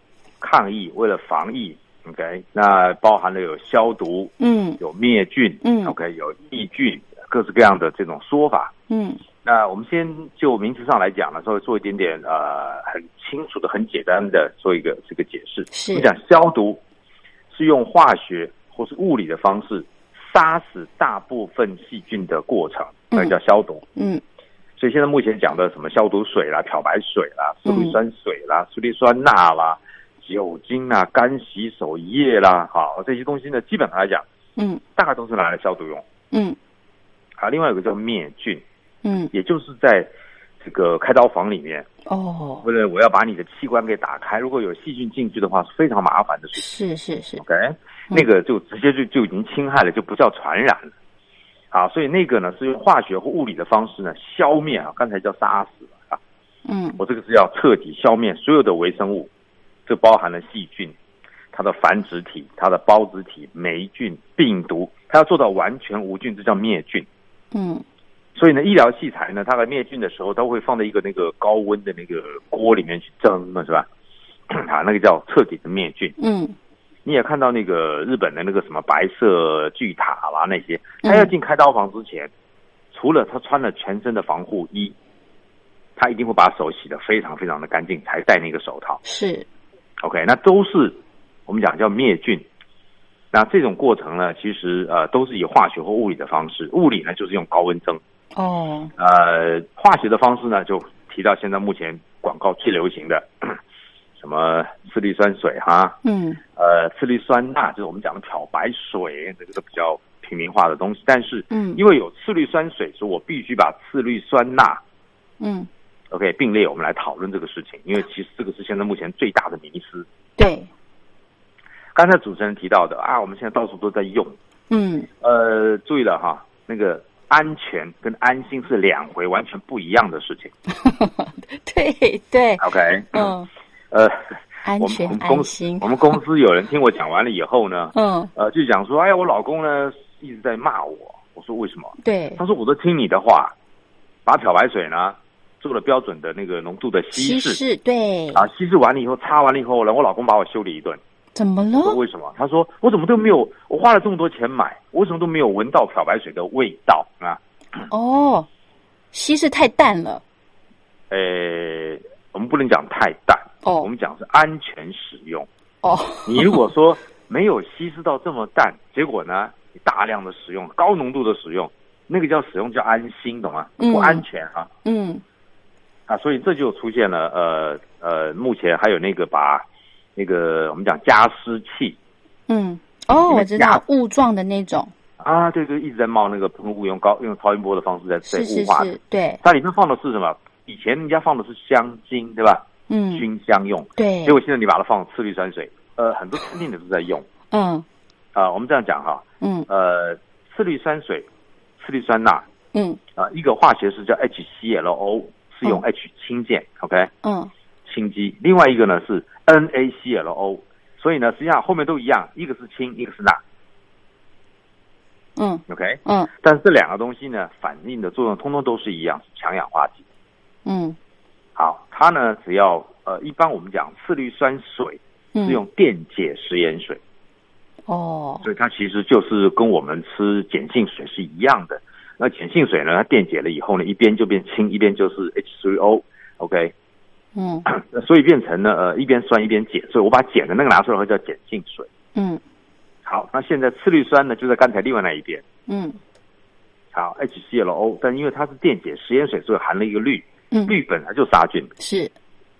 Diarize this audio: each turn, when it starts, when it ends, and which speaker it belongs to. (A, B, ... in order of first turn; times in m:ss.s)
0:00.4-0:08.7 A
0:04.4-0:04.8 B
0:05.6-0:05.9 B
0:08.9-0:09.2 B
0:09.4-0:16.8 A
0:15.7-0:16.1 B
0:17.5-0:23.8 A
0:23.1-0:23.4 B
0:24.0-0:24.2 B
0:24.8-0:34.2 A
0:27.6-0:28.0 B
0:34.6-0:34.8 B
0:35.0-0:36.0 A
0:36.3-0:36.6 B
0:37.4-0:38.6 A
0:39.0-0:39.3 B
0:39.3-0:41.9 A
0:42.0-0:42.6 B
0:42.6-0:46.7 A
0:46.6-0:47.4 B
0:47.4-0:50.9 A
0:51.7-0:56.2 A
0:56.7-0:57.0 B
0:57.0-0:59.3 A
0:59.8-1:00.9 A
1:01.5-1:07.1 A
1:07.5-1:07.8 B
1:08.3-1:13.9 A
1:14.5-1:16.2 A
1:16.2-1:16.5 B
1:17.0-1:22.3 A
1:21.0-1:21.3 B
1:22.9-1:24.9 A
1:26.0-1:29.0 A
1:29.0-1:29.4 B
1:30.0-1:32.4 A
1:33.3-1:38.0 A
1:38.4-1:38.9 B
1:39.0-1:43.6 A
1:44.2-1:46.0 A
1:46.0-1:46.4 B
1:46.6-1:54.8 A
1:51.5-1:51.8 B
1:55.4-1:55.7 B
1:56.1-2:00.1 A
2:00.4-2:00.7 B
2:01.9-2:04.4 A
2:04.7-2:05.1 B
2:05.2-2:10.5 A
2:10.8-2:13.5 B
2:12.6-2:13.3 A
2:13.9-2:23.5 A
2:14.6-2:16.2 B
2:17.9-2:18.3 B
2:22.0-2:22.4 B
2:24.2-2:27.6 A
2:27.1-2:28.4 B
2:28.3-2:31.0 A
2:31.3-2:32.0 B
2:31.8-2:37.4 A
2:37.9-2:38.5 B
2:39.1-2:40.2 B
2:41.1-2:45.5 A
2:43.6-2:43.9 B
2:45.8-2:46.7 B
2:46.2-2:54.7 A
2:53.8-2:54.2 B
2:54.8-2:55.2 B
2:56.1-2:59.6 A
3:00.2-3:02.0 A
3:02.5-3:04.9 B
3:03.1-3:03.8 A
3:05.2-3:17.2 A
3:08.3-3:09.4 B
3:12.9-3:13.2 B
3:14.0-3:14.4 B
3:17.5-3:17.8 B
3:18.3-3:21.3 A
3:19.4-3:19.7 B
3:21.8-3:22.4 A
3:22.7-3:23.0 B
3:23.2-3:27.1 A
3:27.2-3:27.5 B
3:27.8-3:33.4 A
3:35.4-3:36.3 B
3:35.7-3:40.0 A
3:40.6-3:41.0 B
3:41.6-3:47.0 A
3:45.3-3:45.6 B
3:47.9-3:48.4 B
3:48.4-3:56.7 A
3:57.4-3:57.7 B
3:57.7-4:01.9 A
4:02.1-4:02.4 B
4:03.0-4:05.4 A
4:05.7-4:06.0 B
4:06.9-4:11.7 A
4:10.5-4:10.8 B
4:11.8-4:12.1 B